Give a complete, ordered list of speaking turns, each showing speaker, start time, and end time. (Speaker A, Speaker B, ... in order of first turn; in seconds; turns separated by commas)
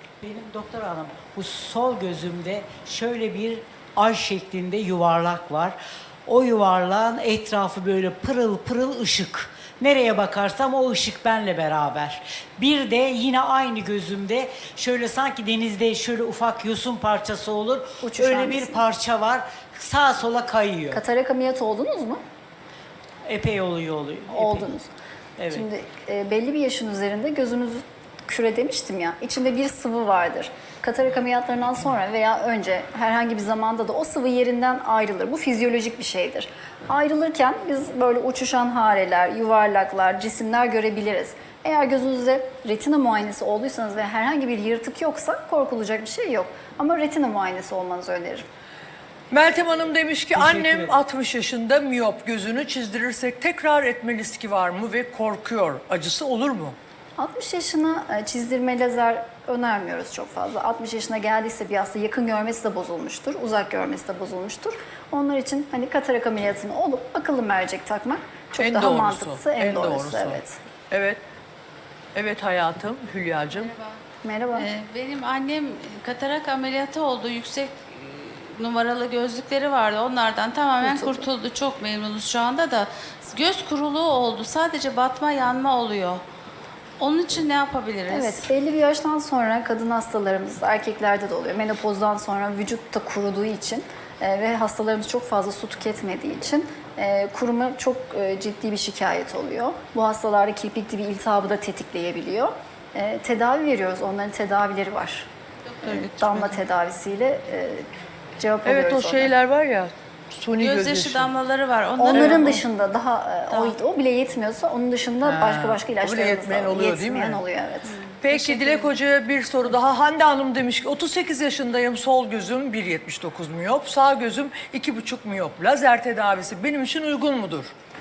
Speaker A: 0.2-21.0, Speaker B: 18.0-18.8, Speaker B: 20.9-22.2, Speaker A: 23.3-24.7, Speaker B: 24.3-24.9, Speaker A: 25.4-25.7, Speaker B: 25.5-48.5, Speaker C: 49.3-56.8, Speaker A: 50.4-50.8, Speaker B: 57.2-70.6, Speaker C: 68.6-71.2, Speaker C: 72.2-73.7, Speaker D: 73.5-74.0, Speaker B: 74.2-74.7, Speaker D: 74.5-86.2, Speaker B: 80.8-81.3, Speaker D: 87.0-88.4, Speaker B: 88.1-105.3, Speaker D: 105.7-106.6, Speaker B: 105.9-107.8, Speaker B: 108.4-109.3, Speaker C: 108.7-111.3, Speaker D: 110.6-112.6, Speaker B: 112.0-118.8, Speaker C: 112.1-112.6, Speaker C: 115.2-117.4, Speaker C: 118.2-127.7